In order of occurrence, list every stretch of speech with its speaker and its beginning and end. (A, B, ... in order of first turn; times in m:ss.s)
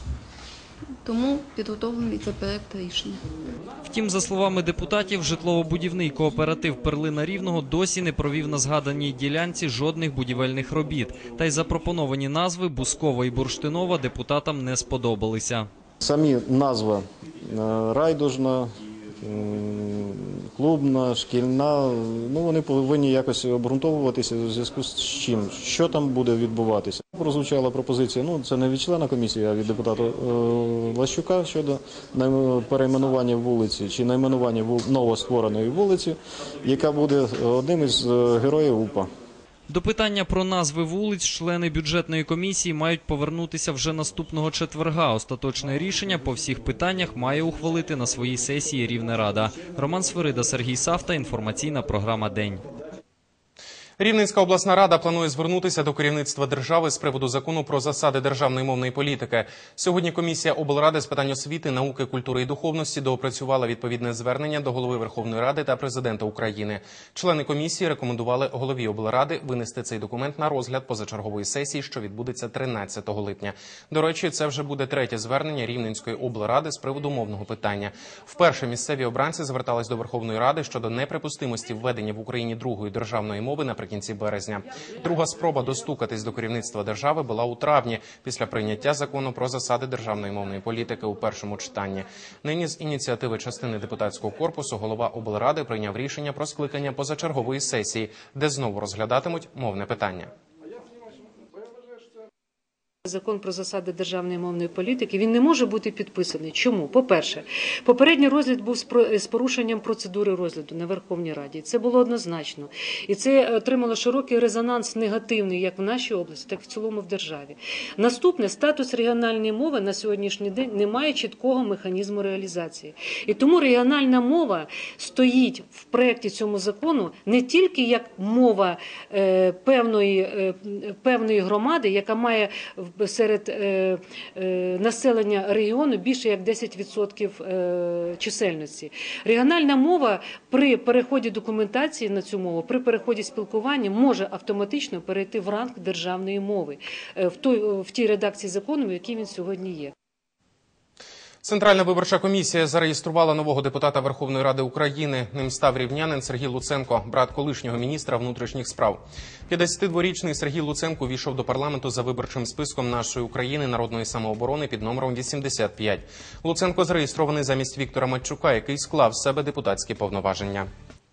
0:01.0-0:03.2 A
0:03.8-0:15.7 B
0:16.0-0:39.1 C
0:39.7-0:52.6 B
0:54.0-1:40.3 D
1:43.0-2:29.9 E
2:31.4-2:50.7 D